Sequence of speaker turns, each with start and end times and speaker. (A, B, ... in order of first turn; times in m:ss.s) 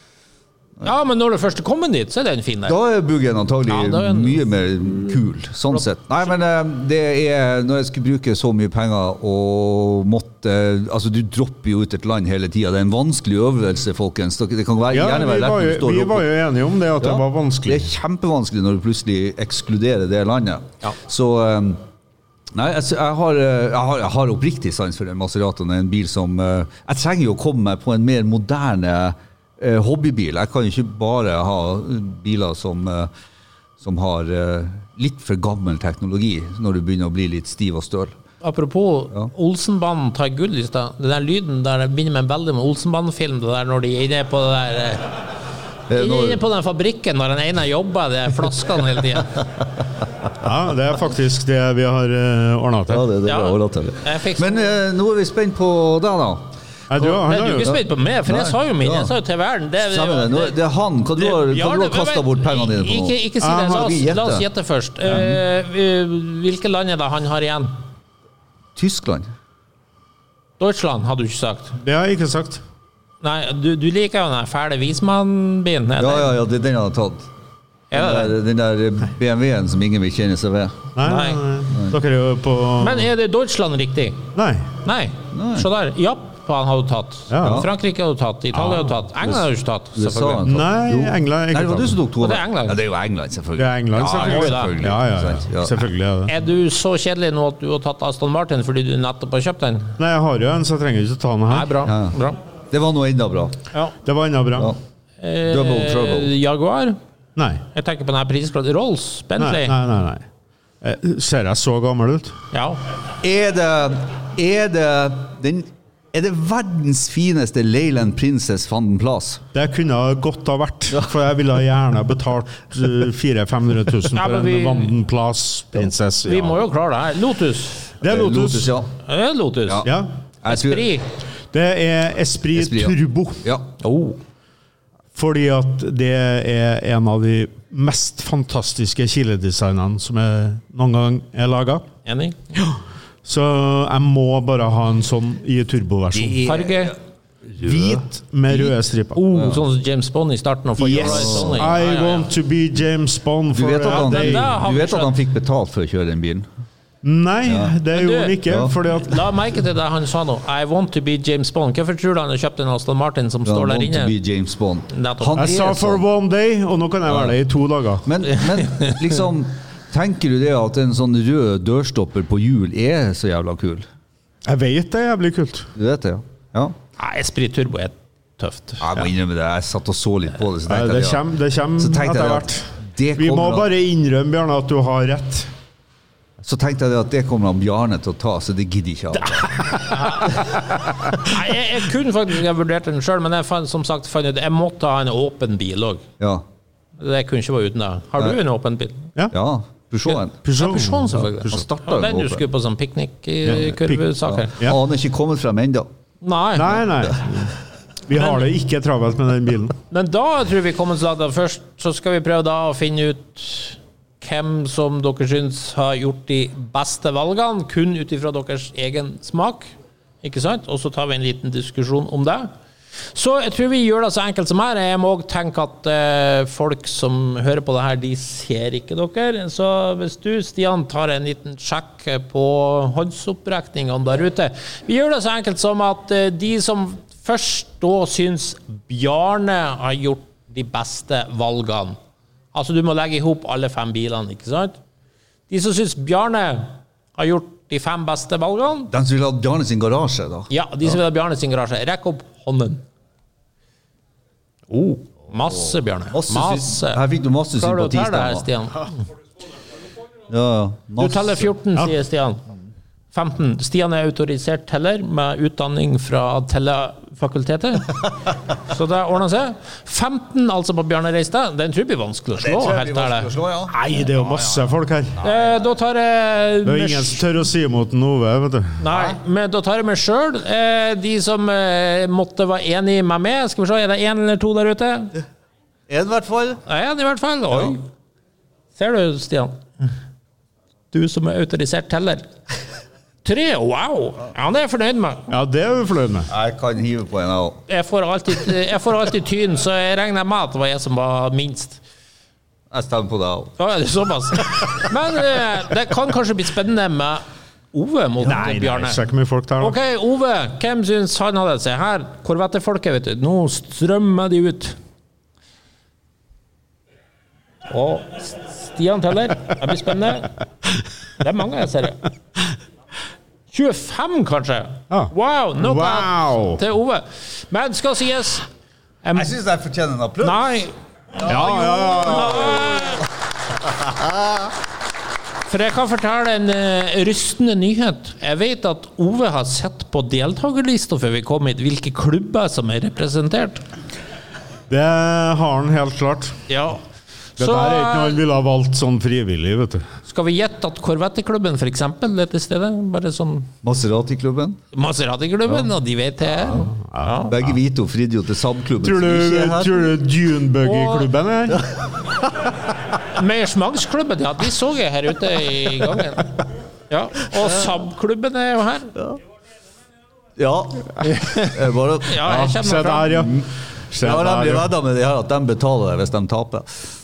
0:00.8-0:02.8 A
0:02.6-0:16.3 B
0:03.7-0:05.2 A
0:14.9-0:17.9 C
0:17.0-0:21.8 B
0:22.5-0:33.1 B
0:33.8-0:38.2 B
0:38.4-0:45.1 A
0:45.9-0:46.4 B
0:45.9-0:49.5 A
0:50.4-0:53.1 C
0:52.9-0:56.5 B
0:53.2-0:54.6 A
0:56.9-0:57.8 C
0:57.0-1:00.6 A
0:58.3-0:59.1 B
0:59.8-1:04.4 B
1:01.2-1:07.8 A
1:03.4-1:03.9 C
1:08.8-1:09.3 B
1:10.6-1:11.8 A
1:11.8-1:12.6 C
1:13.2-1:16.3 A
1:16.0-1:17.2 B
1:17.9-1:18.4 A
1:17.9-1:20.9 B
1:21.0-1:23.1 C
1:21.0-1:21.4 A
1:21.7-1:22.0 B
1:22.8-1:24.2 A
1:24.4-1:24.7 C
1:24.8-1:30.4 A
1:25.3-1:25.7 B
1:27.3-1:27.7 C
1:27.4-1:27.7 B
1:28.6-1:28.9 C
1:29.9-1:35.8 B
1:30.4-1:32.0 C
1:32.2-1:32.8 A
1:33.6-1:36.3 C
1:34.1-1:34.8 A
1:36.3-1:40.0 A
1:40.0-1:41.8 C
1:41.5-1:42.4 A
1:41.8-1:42.2 B
1:42.7-1:43.6 B
1:44.0-1:44.8 C
1:45.2-1:47.0 A
1:45.4-1:46.3 B
1:47.4-1:47.6 C
1:47.7-1:49.8 A
1:49.4-1:50.3 C
1:50.8-1:52.3 C
1:52.5-1:52.8 A
1:53.2-1:59.4 B
1:59.5-2:06.6 C
2:04.1-2:04.9 A
2:06.2-2:07.9 A
2:08.0-2:08.8 C
2:08.0-2:08.9 B
2:09.1-2:09.9 A
2:09.8-2:10.1 C
2:10.4-2:10.9 B
2:10.5-2:11.1 A
2:11.5-2:13.4 C
2:12.5-2:13.7 B
2:13.8-2:14.2 A
2:15.1-2:21.9 C
2:22.0-2:22.4 A
2:22.6-2:26.4 C
2:26.1-2:28.7 B
2:26.4-2:26.9 A
2:27.6-2:29.3 C
2:29.1-2:32.3 A
2:29.3-2:29.6 B
2:30.8-2:31.7 B
2:31.1-2:34.5 C
2:33.5-2:36.5 B
2:33.9-2:35.1 A
2:37.0-2:39.3 C
2:37.4-2:37.7 B
2:37.9-2:44.1 A
2:38.4-2:38.8 B
2:43.4-2:46.0 B
2:44.9-2:45.4 A
2:45.4-2:48.1 C
2:47.1-2:47.4 B
2:48.0-2:53.9 B
2:48.6-2:48.9 A
2:54.4-2:55.7 C
2:55.8-2:56.8 B
2:57.0-2:58.9 A
2:58.8-3:01.2 B
3:00.6-3:05.5 C
3:01.8-3:03.7 B
3:06.4-3:09.7 B
3:09.6-3:10.4 A
3:11.1-3:16.0 A
3:16.2-3:16.4 B
3:17.0-3:19.1 A
3:19.3-3:20.4 B
3:20.1-3:24.6 A
3:20.4-3:21.6 C
3:21.5-3:22.4 B
3:23.5-3:24.8 C
3:24.3-3:25.9 B
3:26.2-3:26.8 A
3:26.6-3:29.8 C
3:29.9-3:39.7 A
3:40.2-3:42.5 A
3:43.1-4:02.0 A
4:02.5-4:04.8 A
4:05.5-4:08.9 A
4:08.9-4:11.0 B
4:10.5-4:12.8 A
4:14.7-4:17.0 A
4:15.5-4:18.5 B
4:17.6-4:19.0 A
4:20.3-4:21.5 B
4:21.0-4:22.4 A
4:23.1-4:34.1 A
4:32.4-4:34.6 B
4:33.7-4:35.2 C
4:35.2-4:35.5 B
4:35.2-4:37.3 A
4:36.6-4:38.8 C
4:38.8-4:45.2 A
4:38.9-4:39.2 B
4:45.9-4:46.6 B
4:46.6-4:47.8 A
4:48.8-4:49.9 A
4:50.9-4:52.2 A
4:53.2-4:55.3 A
4:55.3-4:56.3 C
4:56.3-4:57.6 B
4:57.7-5:01.8 A
5:02.7-5:03.6 B
5:03.6-5:09.0 A
5:08.2-5:09.8 C
5:09.6-5:14.8 A
5:17.7-5:20.3 A
5:21.2-5:22.0 A
5:23.5-5:28.5 A
5:24.9-5:26.6 C
5:29.0-5:29.4 A
5:29.1-5:30.4 B
5:30.2-5:33.1 A
5:31.2-5:32.8 B
5:31.2-5:32.4 C
5:33.6-5:34.5 B
5:35.5-5:43.6 A
5:44.7-5:46.4 C
5:46.5-5:46.8 A
5:47.4-5:48.2 A
5:47.4-5:49.9 C
5:50.1-5:53.5 A
5:53.6-5:54.6 B
5:54.7-5:57.4 A
5:56.8-5:57.2 C
5:57.3-5:59.9 B
5:58.8-6:01.6 C
6:00.6-6:01.1 A
6:01.5-6:02.5 B
6:03.1-6:06.4 A
6:06.9-6:08.9 A
6:10.4-6:13.4 B
6:11.1-6:13.1 A
6:12.4-6:14.7 C
6:14.0-6:16.8 B